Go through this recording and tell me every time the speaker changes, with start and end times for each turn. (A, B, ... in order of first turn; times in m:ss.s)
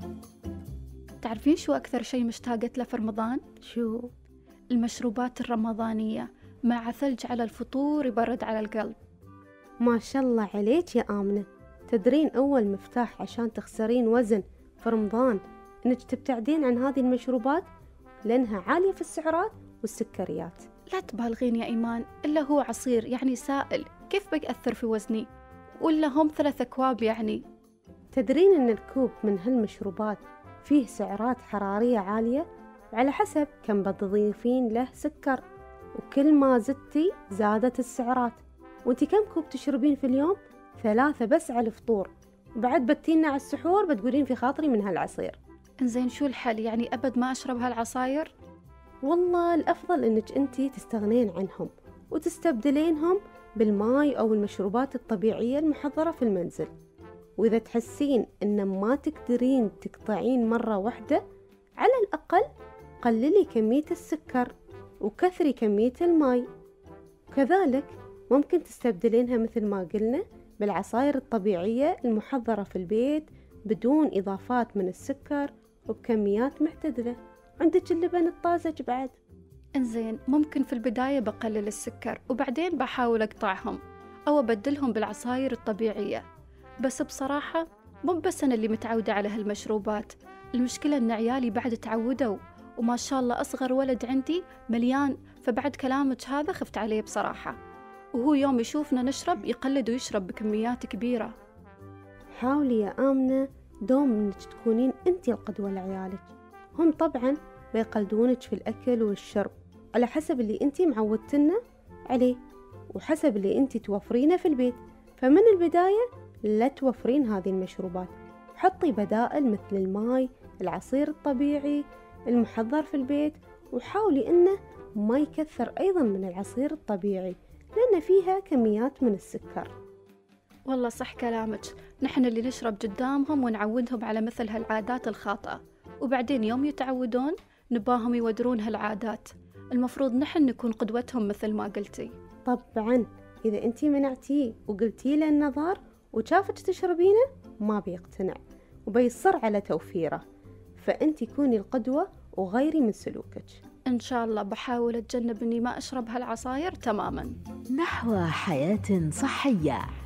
0:01.2-0:03.4 A
0:03.6-0:04.1 B
0:04.7-0:09.0 A
0:09.8-0:17.6 B
0:18.3-0:20.6 B
0:20.9-0:25.3 A
0:25.8-0:27.4 A
0:28.1-0:35.4 B
0:36.0-0:45.4 B
0:45.8-0:48.3 A
0:49.0-0:56.7 B
0:57.4-1:01.2 B
1:01.8-1:02.5 B
1:03.0-1:06.4 B
1:07.3-1:19.2 B
1:19.8-1:26.2 A
1:26.8-1:37.6 A
1:38.1-1:41.3 A
1:42.4-1:52.4 B
1:52.9-2:09.7 B
2:10.7-2:22.1 A
2:22.4-2:30.2 B
2:30.8-2:33.6 B
2:33.9-2:37.3 A
2:37.7-2:39.8 C